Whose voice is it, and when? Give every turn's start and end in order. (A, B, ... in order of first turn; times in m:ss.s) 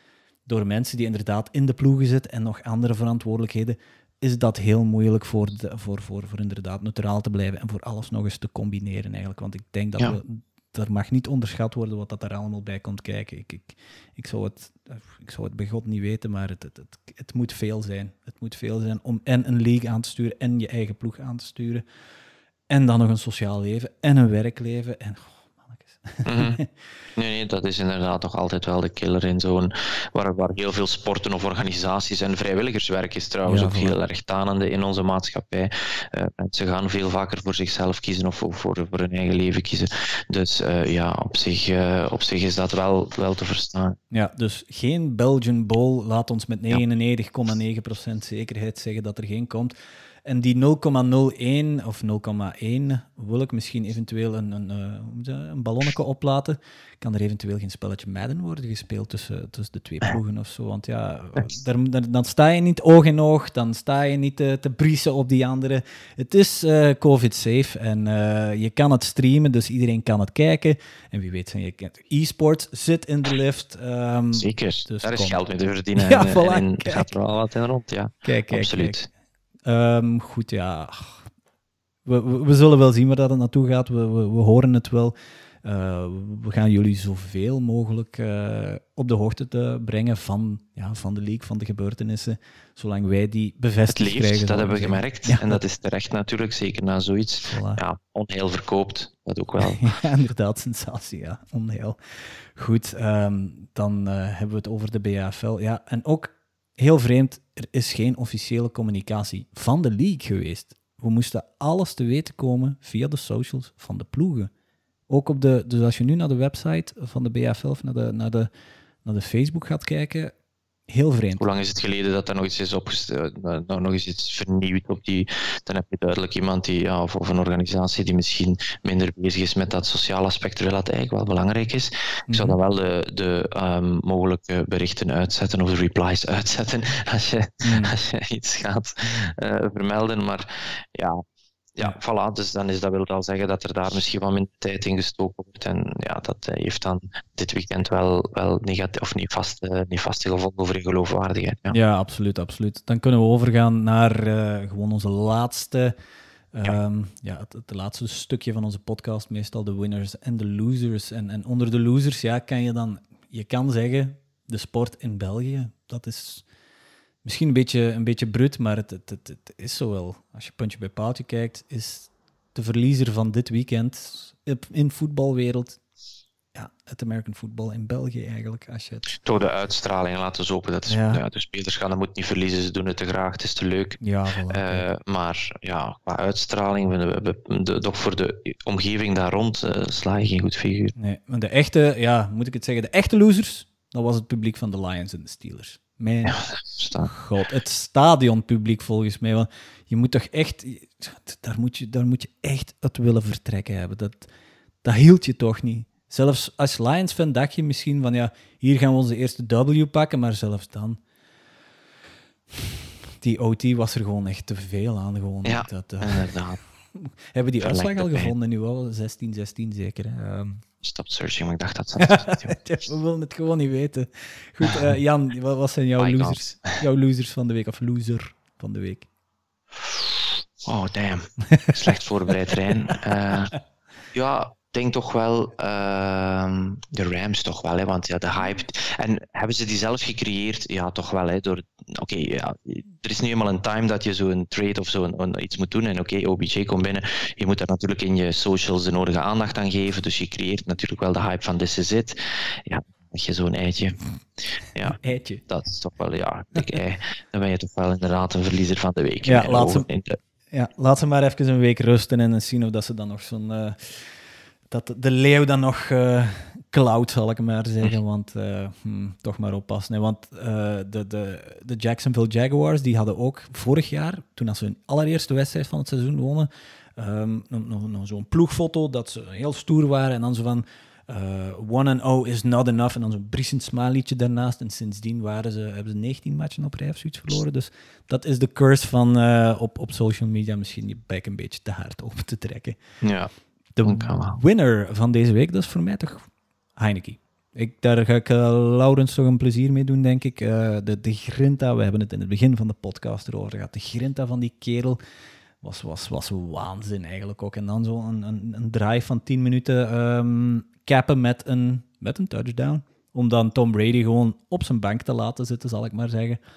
0:00.5-0:21.8 A
0:22.7-0:26.7 A
0:26.2-0:26.6 B
0:27.2-0:44.0 B
0:33.4-0:33.9 A
0:44.1-0:49.7 A
0:50.2-1:15.4 A
1:14.3-1:19.1 B
1:16.0-1:17.1 A
1:18.2-1:19.0 A
1:19.7-1:21.2 A
1:22.0-1:35.6 A
1:33.9-1:39.9 B
1:37.4-1:37.8 A
1:39.6-1:42.0 A
1:42.6-1:54.5 A
1:55.1-1:58.5 A
1:59.0-2:00.3 A
2:00.9-2:01.4 A
2:01.4-2:21.2 B
2:12.3-2:12.6 A
2:17.6-2:17.9 A
2:21.8-2:31.8 B
2:31.7-2:35.9 A
2:36.5-2:46.4 A
2:47.2-2:55.8 A
2:56.5-2:59.1 A
2:59.1-3:10.9 B
3:00.9-3:01.2 A
3:04.0-3:04.9 A
3:11.0-3:16.4 A
3:16.2-3:17.1 B
3:17.0-3:24.3 A
3:24.8-3:31.0 A
3:33.2-3:36.4 A
3:35.4-3:36.6 B
3:36.9-3:40.6 A
3:37.6-3:38.3 B
3:40.8-3:42.5 B
3:42.0-3:49.1 A
3:46.0-3:46.8 B
3:49.8-3:53.5 B
3:54.1-4:14.0 B
4:14.7-4:20.2 B
4:14.9-4:15.4 A
4:19.2-4:19.9 A
4:20.5-4:24.1 A
4:24.7-4:52.8 A
4:53.0-4:53.3 B
4:53.8-5:05.0 A
4:53.8-4:54.4 B
5:05.6-5:16.4 A